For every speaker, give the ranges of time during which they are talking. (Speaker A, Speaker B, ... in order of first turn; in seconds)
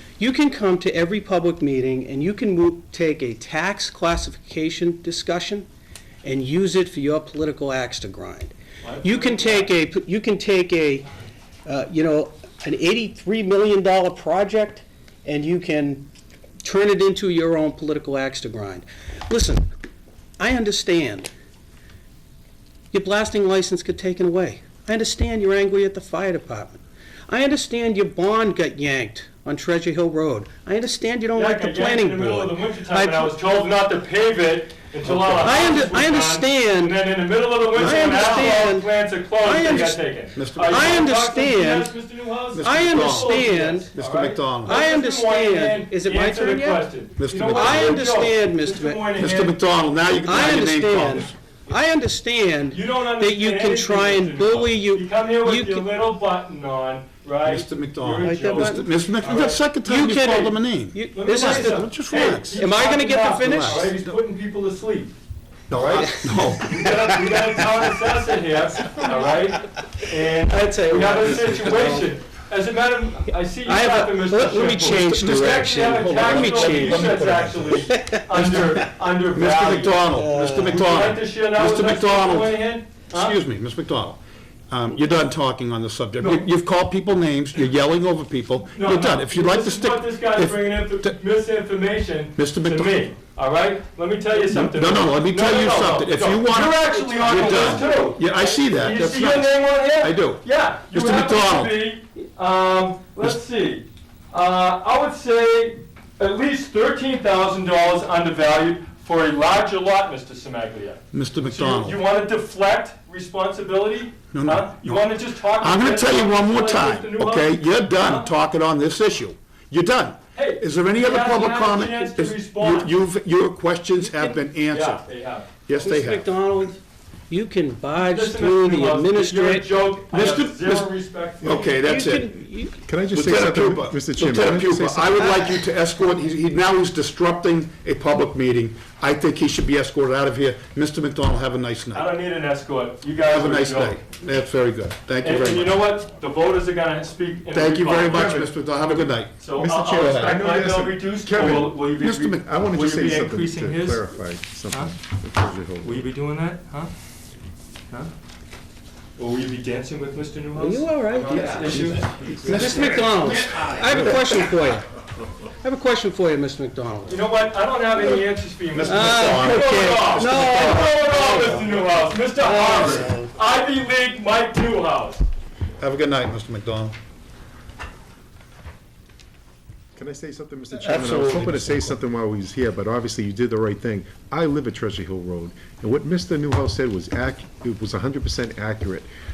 Speaker A: 0.2-5.7, 6.2-11.1, 11.7-16.1, 16.6-19.7, 20.4-21.3, 22.9-33.5, 35.4-37.0, 37.7-40.0, 40.6-41.9, 42.6-43.9, 44.6-46.9, 47.4-49.0, 50.2-55.9, 58.2-58.9, 59.8-64.2, 66.0-67.1, 70.4-72.1, 73.6-77.2, 77.9-78.8, 80.1-81.0, 96.9-98.1, 125.8-129.7, 131.8-132.8, 160.6-164.8, 165.6-167.2, 168.9-171.8, 172.4-173.3
Speaker B: 8.8-9.7, 31.4-49.6, 52.7-59.6, 61.1-65.1, 65.8-80.0, 80.7-83.4, 86.2-86.5, 88.7-118.3, 120.3-122.9, 124.7-125.5, 128.0-131.8, 141.9-144.0, 145.2-148.4, 149.4-154.1, 155.8-156.9, 159.2-164.0, 167.1-175.2
Speaker C: 35.0-35.7, 37.8-38.7, 39.8-41.1, 42.5-44.8, 47.2-48.1, 49.1-51.3, 57.4-62.7, 63.6-63.9, 65.7-66.8, 74.9-78.7, 79.3-82.5, 83.1-91.1, 92.4-93.1, 94.4-101.7, 111.1-112.0, 114.3-125.0, 125.7-126.3, 130.1-132.4, 133.1-142.1, 143.3-145.8, 147.5-150.4, 152.0-152.4, 162.5-163.3, 168.7-170.7, 175.8-176.9, 180.8-182.0
Speaker D: 132.8-135.5, 148.1-148.5, 149.6-156.1, 179.9-189.1